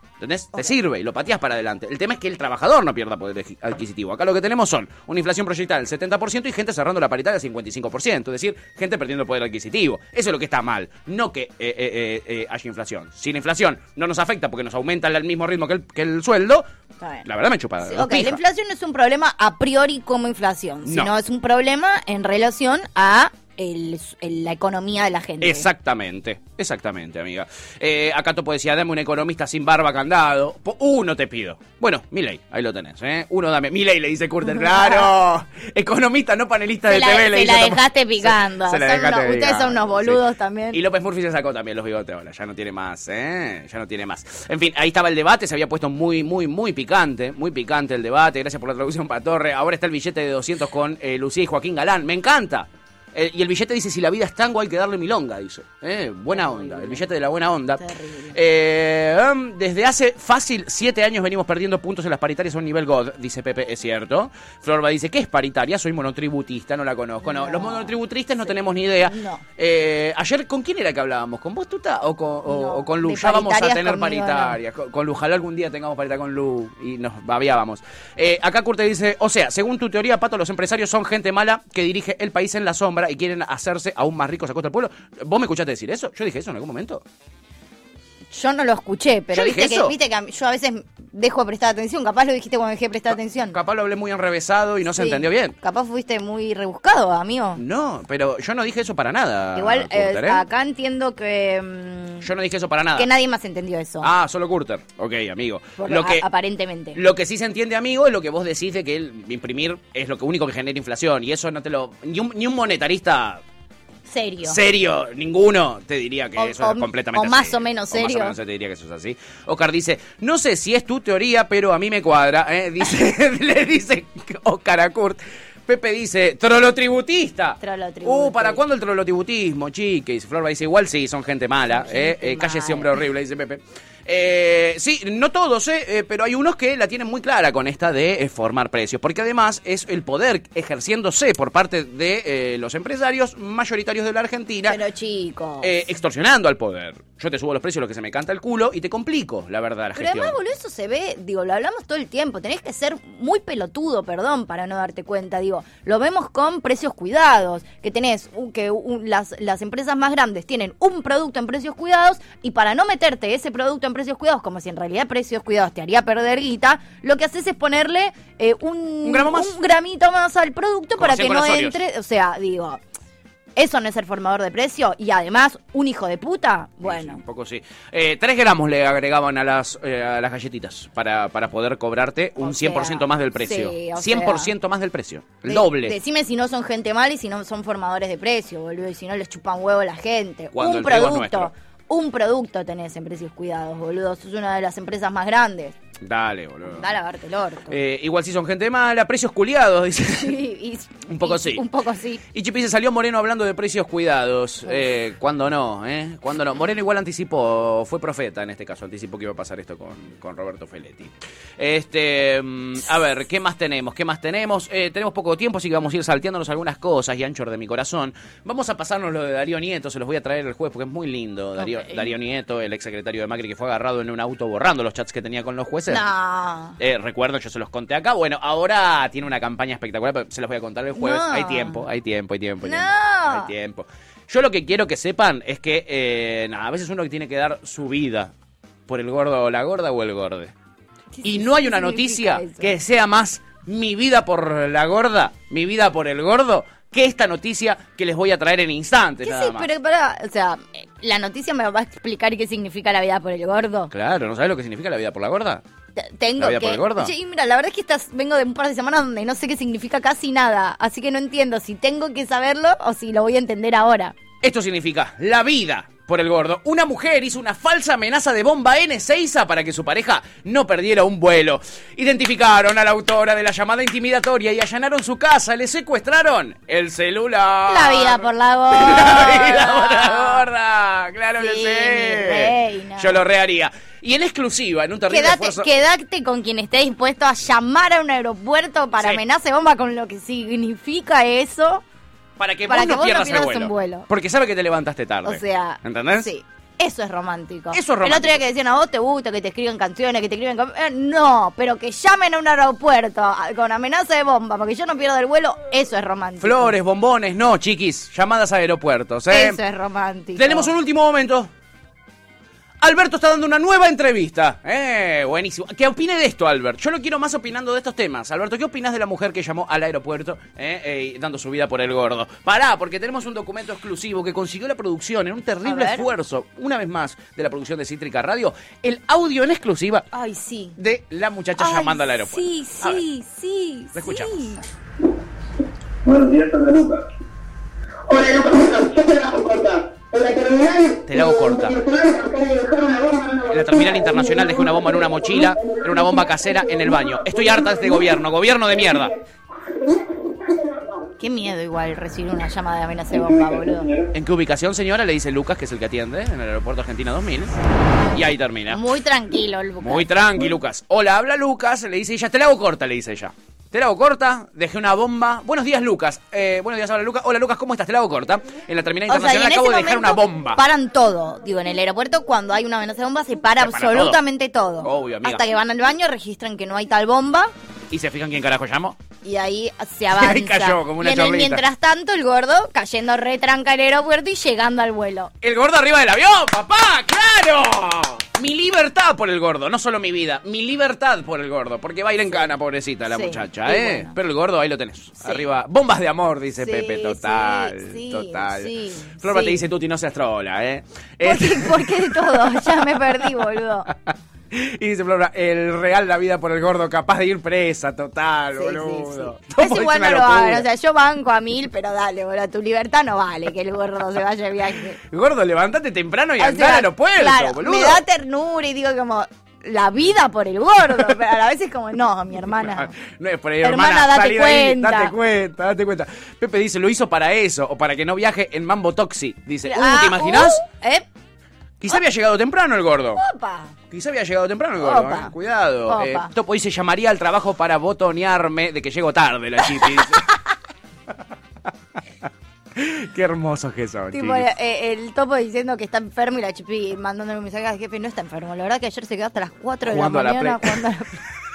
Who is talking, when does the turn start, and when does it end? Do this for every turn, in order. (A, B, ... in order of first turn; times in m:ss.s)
0:00.2-0:16.7 A
0:17.2-0:18.4 A
0:17.8-0:25.7 B
0:20.8-0:21.1 A
0:25.4-1:27.0 A
0:34.5-0:35.1 B
0:36.9-0:40.8 B
0:56.3-0:57.1 B
0:57.8-0:58.4 B
1:07.2-1:09.4 B
1:12.5-1:14.6 B
1:28.3-1:33.6 B
1:29.3-1:30.0 A
1:33.5-1:35.6 A
1:34.9-1:37.6 B
1:37.6-1:40.4 A
1:39.6-1:42.3 B
1:42.2-1:43.1 A
1:43.0-1:44.1 B
1:44.0-1:46.2 A
1:45.8-1:47.0 B
1:47.0-1:53.4 A
1:54.1-1:54.6 B
1:54.4-2:24.8 A
1:56.4-1:58.4 B
2:07.6-2:08.6 B
2:11.7-2:13.0 B
2:24.7-2:25.9 B
2:25.6-2:30.4 A
2:30.0-2:52.8 B
2:49.0-2:49.5 A
2:51.0-2:51.8 A
2:53.6-2:57.2 B
2:56.8-3:06.0 A
3:02.4-3:04.5 B
3:05.5-3:15.8 B
3:10.5-3:11.5 A
3:16.0-3:16.9 A
3:16.7-3:17.8 B
3:17.7-3:20.4 A
3:20.1-3:22.2 B
3:21.1-3:21.6 A
3:22.3-3:46.1 A
3:41.6-3:42.1 B
3:45.9-3:46.8 B
3:46.8-3:58.3 A
3:51.0-3:51.8 B
3:52.6-3:53.5 B
3:58.9-4:00.5 A
4:01.1-4:02.8 B
4:01.2-4:09.7 A
4:09.2-4:13.9 B
4:13.9-4:15.6 A
4:16.0-4:24.2 B
4:16.4-4:17.1 A
4:24.4-4:45.7 A
4:37.7-4:40.5 B
4:41.4-4:43.2 B
4:45.1-4:51.8 B
4:52.4-4:56.3 A
4:52.7-4:54.1 B
4:55.2-5:06.7 B
4:57.7-4:58.4 A
5:06.4-5:09.6 A
5:09.3-5:10.7 B
5:10.4-5:11.5 A
5:12.8-5:30.1 A
5:25.6-5:26.1 B
5:30.1-5:30.8 B
5:30.8-5:33.0 A
5:31.6-5:34.6 B
5:33.9-5:34.6 A
5:36.0-5:37.1 C
5:38.1-5:49.1 C
5:41.1-5:41.8 A
5:43.5-5:49.1 A
5:49.8-5:50.9 C
5:51.2-5:53.9 B
5:53.2-5:54.1 C
5:54.1-5:57.6 A
5:58.1-5:58.9 A
5:58.7-6:00.1 B
5:59.8-6:10.6 A
6:09.1-6:17.5 B
6:13.6-6:14.2 A
6:14.8-6:15.4 A
6:17.9-6:19.0 A
6:19.2-6:25.3 B
6:20.1-6:21.6 A
6:25.4-6:50.7 A
6:33.1-6:34.2 B
6:36.6-6:39.6 B
6:41.2-6:43.9 B
6:48.6-6:55.0 B
6:55.0-6:58.0 A
6:56.4-7:02.9 B
7:02.6-7:10.6 A
7:03.6-7:05.2 B
7:09.6-7:11.1 B
7:11.8-7:13.2 A
7:13.2-7:13.8 B
7:13.9-7:20.2 A
7:14.8-7:15.3 B
7:15.9-7:16.3 B
7:22.8-7:24.5 A
7:24.1-7:31.2 B
7:29.8-7:30.8 A